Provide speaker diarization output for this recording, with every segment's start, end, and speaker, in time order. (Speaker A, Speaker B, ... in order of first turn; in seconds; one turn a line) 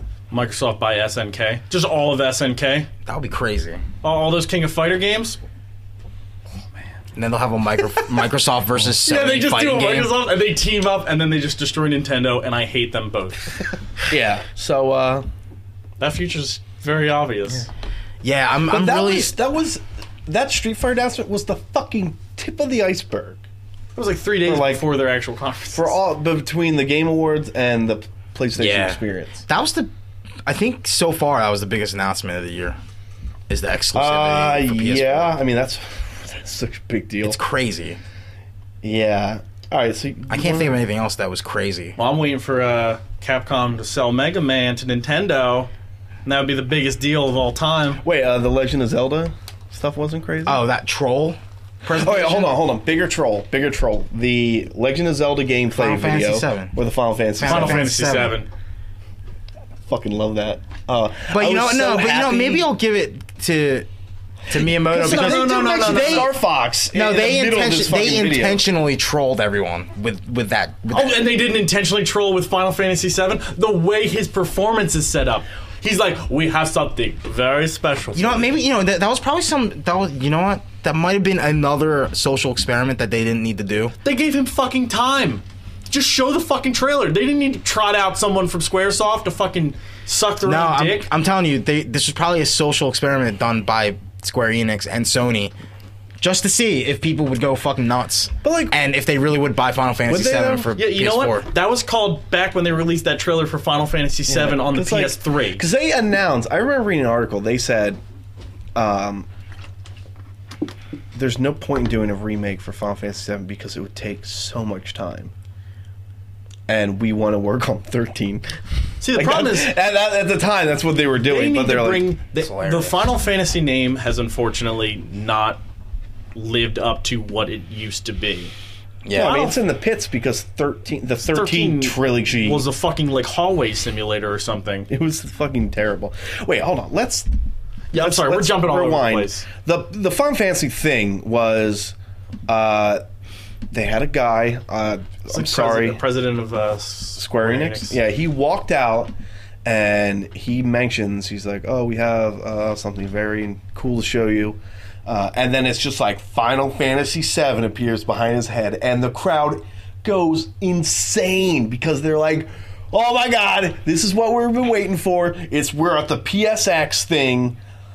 Speaker A: 0.3-2.9
Speaker B: 3.0-3.8
Speaker A: 4.0-5.4
Speaker B: 7.2-10.2
Speaker A: 9.0-13.5
Speaker C: 14.1-15.3
Speaker A: 16.0-17.7
Speaker B: 18.2-19.3
Speaker C: 18.7-23.4
Speaker A: 23.9-26.0
Speaker C: 24.4-24.9
Speaker C: 25.7-29.4
Speaker B: 28.5-29.9
Speaker B: 30.4-32.8
Speaker B: 33.5-35.3
Speaker C: 33.9-37.4
Speaker B: 37.2-38.0
Speaker C: 38.8-40.7
Speaker B: 40.3-42.0
Speaker A: 42.0-45.7
Speaker A: 46.2-48.0
Speaker C: 48.0-50.6
Speaker B: 50.4-52.6
Speaker C: 51.9-57.9
Speaker B: 55.7-56.8
Speaker B: 57.4-58.3
Speaker A: 57.4-58.5
Speaker C: 59.9-62.7
Speaker B: 61.3-63.9
Speaker B: 64.5-66.3
Speaker C: 64.8-68.6
Speaker A: 64.9-66.3
Speaker B: 66.9-71.3
Speaker A: 70.9-78.5
Speaker B: 78.1-83.9
Speaker A: 84.0-91.1
Speaker B: 90.4-95.5
Speaker B: 96.2-101.5
Speaker C: 98.4-98.8
Speaker C: 100.1-100.7
Speaker A: 100.7-105.6
Speaker C: 104.3-108.0
Speaker C: 108.7-109.3
Speaker C: 111.1-115.3
Speaker C: 116.7-118.5
Speaker A: 119.0-119.7
Speaker C: 119.1-122.1
Speaker A: 121.2-125.6
Speaker B: 122.4-123.0
Speaker A: 126.3-128.5
Speaker B: 129.0-129.5
Speaker A: 129.1-129.6
Speaker C: 129.1-132.6
Speaker A: 131.2-134.9
Speaker C: 134.9-137.3
Speaker A: 137.9-139.5
Speaker C: 137.9-141.9
Speaker C: 142.5-143.0
Speaker C: 143.7-146.0
Speaker A: 145.3-148.0
Speaker C: 147.2-149.1
Speaker C: 149.6-167.6